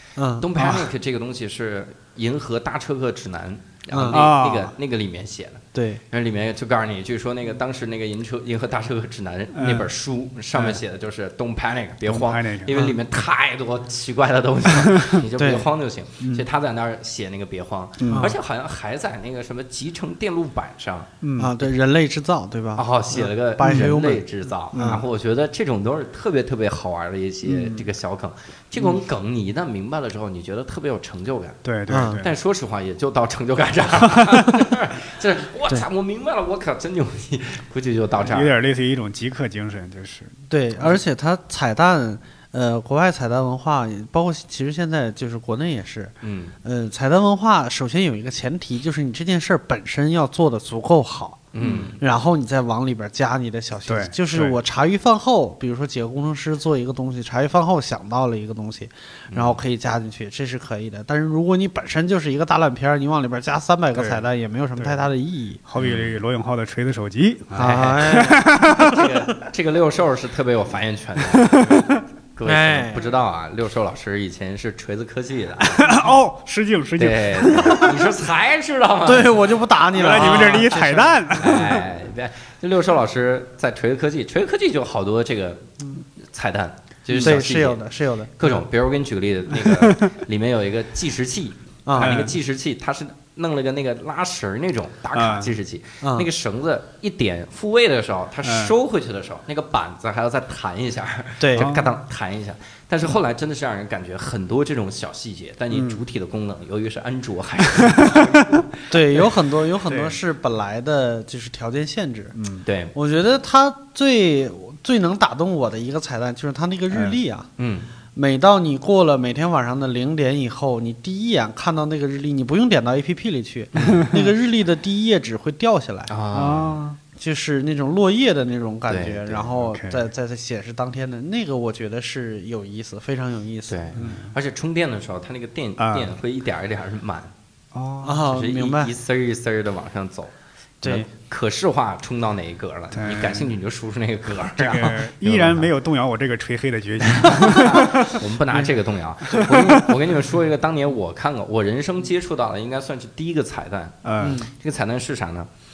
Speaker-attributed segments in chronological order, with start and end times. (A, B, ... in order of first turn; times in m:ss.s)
0:00.2-0:00.7 A
0:00.4-0:21.1 B
0:00.6-0:00.8 C
0:03.9-0:04.2 A
0:04.1-0:04.7 C
0:05.7-0:06.0 A
0:09.5-0:09.9 C
0:10.5-0:10.8 C
0:12.1-0:12.8 C
0:14.8-0:15.2 C
0:15.4-0:15.7 A
0:18.0-0:18.3 C
0:18.1-0:18.3 A
0:21.2-0:21.5 C
0:21.4-0:24.2 A
0:22.8-0:31.6 B
0:23.6-0:24.0 C
0:24.7-0:25.0 C
0:24.7-0:25.0 A
0:27.5-0:27.8 C
0:31.6-0:32.3 C
0:31.9-0:32.2 A
0:32.2-0:38.5 B
0:34.1-0:34.4 C
0:38.2-0:40.3 C
0:40.5-0:46.1 A
0:46.2-0:46.5 B
0:46.6-1:05.6 A
0:51.5-0:52.0 B
0:53.9-0:54.6 C
0:59.3-0:59.6 B
1:04.0-1:04.2 C
1:04.8-1:05.1 C
1:05.7-1:09.0 C
1:05.8-1:06.2 B
1:07.6-1:09.0 A
1:07.6-1:16.0 B
1:11.3-1:12.0 C
1:12.4-1:13.1 A
1:15.6-1:17.9 C
1:17.0-1:19.5 B
1:19.0-1:21.0 A
1:19.9-1:21.9 C
1:20.1-1:27.8 B
1:27.2-1:28.3 A
1:28.4-1:49.3 B
1:29.5-1:30.1 C
1:31.9-1:32.2 A
1:32.0-1:32.4 C
1:35.1-1:35.5 C
1:36.0-1:36.3 A
1:38.4-1:38.8 C
1:41.4-1:41.7 A
1:41.6-1:41.9 C
1:45.7-1:46.0 C
1:47.8-1:48.6 C
1:48.9-1:52.4 A
1:49.9-1:50.2 C
1:52.4-1:52.6 C
1:52.6-1:52.9 B
1:53.0-1:57.5 A
1:57.6-1:57.9 B
1:58.2-2:06.1 A
2:03.8-2:04.1 B
2:03.9-2:04.2 C
2:06.1-2:06.8 B
2:06.3-2:07.0 C
2:07.2-2:14.2 A
2:08.9-2:09.5 B
2:09.6-2:10.0 C
2:13.7-2:17.3 B
2:14.0-2:14.3 C
2:15.8-2:16.1 C
2:17.7-2:18.2 C
2:18.0-2:18.9 A
2:18.3-2:20.3 B
2:20.8-2:21.1 A
2:20.8-2:25.7 B
2:22.9-2:23.5 C
2:24.6-2:28.2 C
2:27.0-2:35.5 B
2:29.3-2:29.9 C
2:34.0-2:34.4 C
2:34.2-2:34.5 A